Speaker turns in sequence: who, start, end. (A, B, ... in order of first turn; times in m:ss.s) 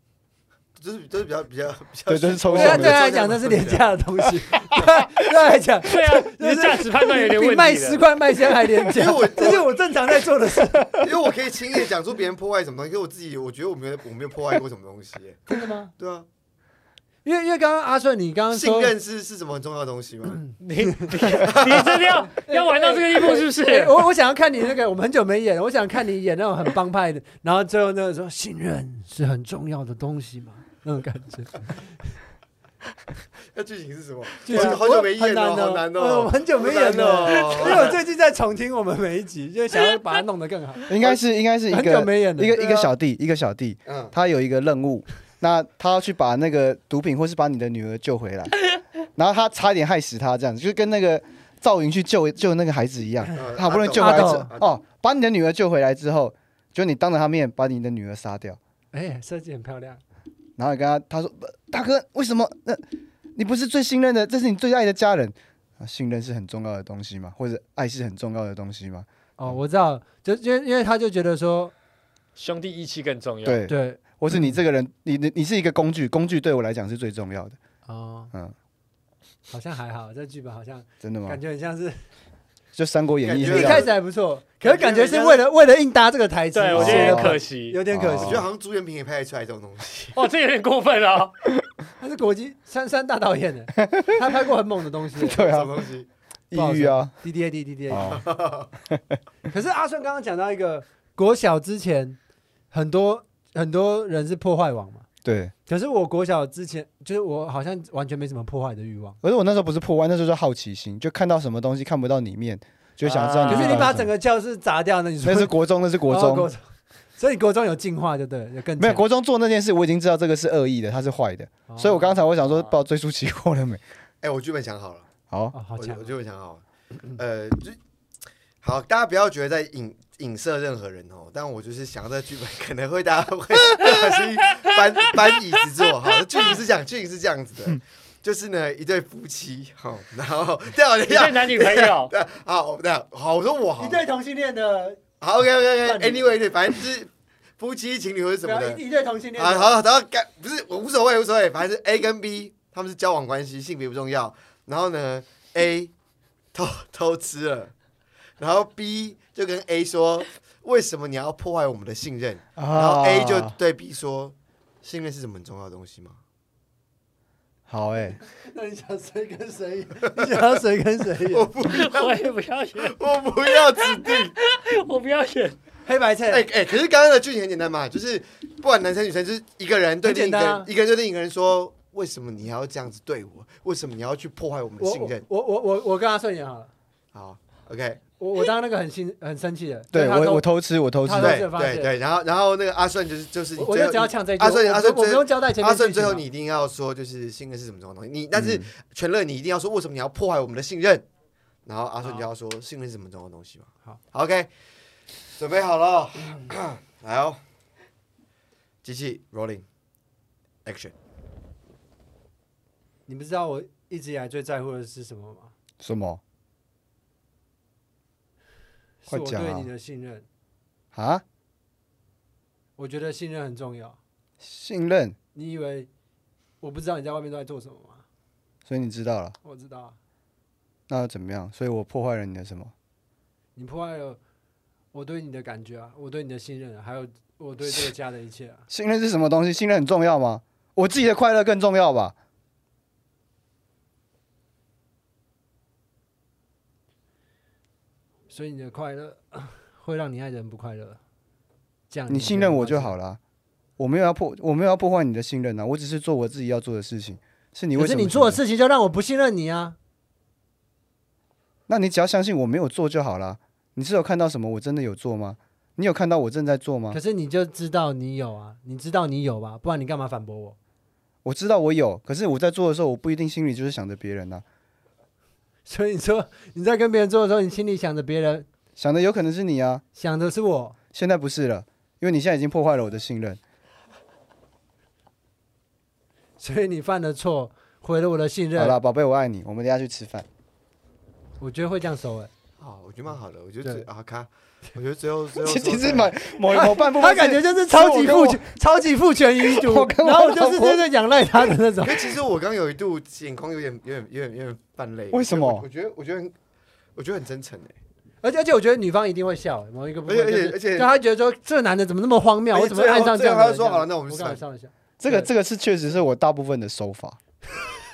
0:00.8-0:03.8 A
0:02.1-0:03.0 B
0:02.5-0:11.1 C
0:05.8-0:08.0 D
0:08.9-0:09.8 A
0:11.0-0:16.2 A
0:15.5-0:15.9 C
0:17.2-0:18.9 C
0:18.5-0:20.5 A
0:20.6-0:24.0 D
0:21.3-0:22.2 A
0:22.3-0:31.7 C
0:33.5-0:38.0 A
0:34.4-0:40.9 C
0:37.3-0:37.7 D
0:40.9-0:48.6 B
0:41.7-0:42.6 C
0:42.6-0:42.9 A
0:43.9-0:44.1 A
0:49.2-0:58.6 B
0:53.3-0:54.8 A
0:54.0-0:54.5 C
0:58.9-1:00.0 C
1:00.6-1:02.8 B
1:03.3-1:09.6 B
1:09.4-1:11.7 C
1:12.4-1:13.6 D
1:13.4-1:17.6 B
1:13.7-1:14.5 C
1:17.9-1:18.3 C
1:19.5-1:22.0 C
1:21.0-1:21.4 B
1:22.8-1:23.9 B
1:23.2-1:23.9 A
1:23.4-1:28.4 C
1:24.6-1:25.4 A
1:26.5-1:27.8 D
1:26.7-1:28.4 B
1:28.2-1:30.1 A
1:30.1-1:31.4 D
1:32.0-1:35.4 C
1:33.8-1:34.2 B
1:35.2-1:35.7 B
1:35.2-1:36.1 A
1:36.5-1:37.1 B
1:36.5-1:38.2 C
1:37.9-1:38.2 B
1:38.0-1:38.7 A
1:38.9-1:39.2 B
1:39.5-1:42.2 C
1:42.7-1:45.0 C
1:45.2-1:45.5 B
1:45.7-1:49.2 C
1:49.2-1:54.1 B
1:53.0-1:53.9 D
1:53.5-1:56.6 C
1:55.2-1:56.5 B
1:57.2-1:59.0 C
1:58.8-2:03.8 B
2:01.7-2:02.2 C
2:02.4-2:02.7 D
2:04.2-2:05.1 A
2:05.3-2:05.5 B
2:05.5-2:06.1 C
2:05.8-2:07.8 A
2:08.6-2:24.0 A
2:13.8-2:14.6 D
2:21.1-2:22.1 D
2:23.8-2:25.0 C
2:25.2-2:28.8 A
2:25.8-2:26.3 C
2:28.4-2:29.8 C
2:29.4-2:35.9 A
2:36.5-2:37.7 A
2:38.4-2:46.2 A
2:42.6-2:43.5 B
2:47.7-2:48.2 B
2:48.4-2:51.5 C
2:50.1-2:50.5 A
2:51.3-2:52.2 A
2:51.6-2:55.6 D
2:52.8-2:54.3 A
2:55.8-2:56.5 C
2:56.3-3:05.2 A
3:00.0-3:00.7 C
3:04.8-3:06.7 C
3:07.1-3:08.0 A
3:08.2-3:10.5 C
3:09.9-3:11.4 B
3:11.0-3:11.9 C
3:11.2-3:21.0 A
3:13.6-3:16.2 C
3:18.3-3:18.7 B
3:21.6-3:24.5 A
3:25.4-3:27.4 A
3:28.8-3:29.6 A
3:30.6-3:30.9 A
3:33.1-3:35.5 C
3:35.8-3:36.2 B
3:39.0-3:40.2 C
3:39.1-3:39.7 B
3:40.9-3:41.2 B
3:42.8-3:44.0 C
3:44.4-3:45.2 B
3:45.3-3:45.9 C
3:46.6-3:48.0 C
3:48.6-3:49.3 B
3:49.4-3:50.0 C
3:50.9-3:52.7 B
3:53.6-3:54.2 C
3:54.9-3:58.6 C
3:58.7-4:02.1 B
4:08.3-4:11.0 C
4:11.9-4:13.0 C
4:12.1-4:13.2 B
4:13.8-4:18.4 B
4:17.8-4:19.8 C
4:21.7-4:27.0 B
4:26.9-4:30.6 C
4:31.2-4:34.4 B
4:35.6-4:38.5 C
4:38.8-4:39.8 B
4:40.0-4:40.8 C
4:40.9-4:43.4 B
4:46.4-4:48.8 C
4:48.6-4:50.2 B
4:51.4-4:52.3 C
4:52.6-4:56.1 A
4:55.4-4:58.4 B
4:56.5-5:02.1 C
4:59.4-5:00.9 B
5:01.8-5:06.3 A
5:05.1-5:05.6 B
5:07.0-5:07.7 A
5:08.2-5:15.3 C
5:10.1-5:10.9 A
5:12.5-5:14.4 A
5:15.0-5:17.2 B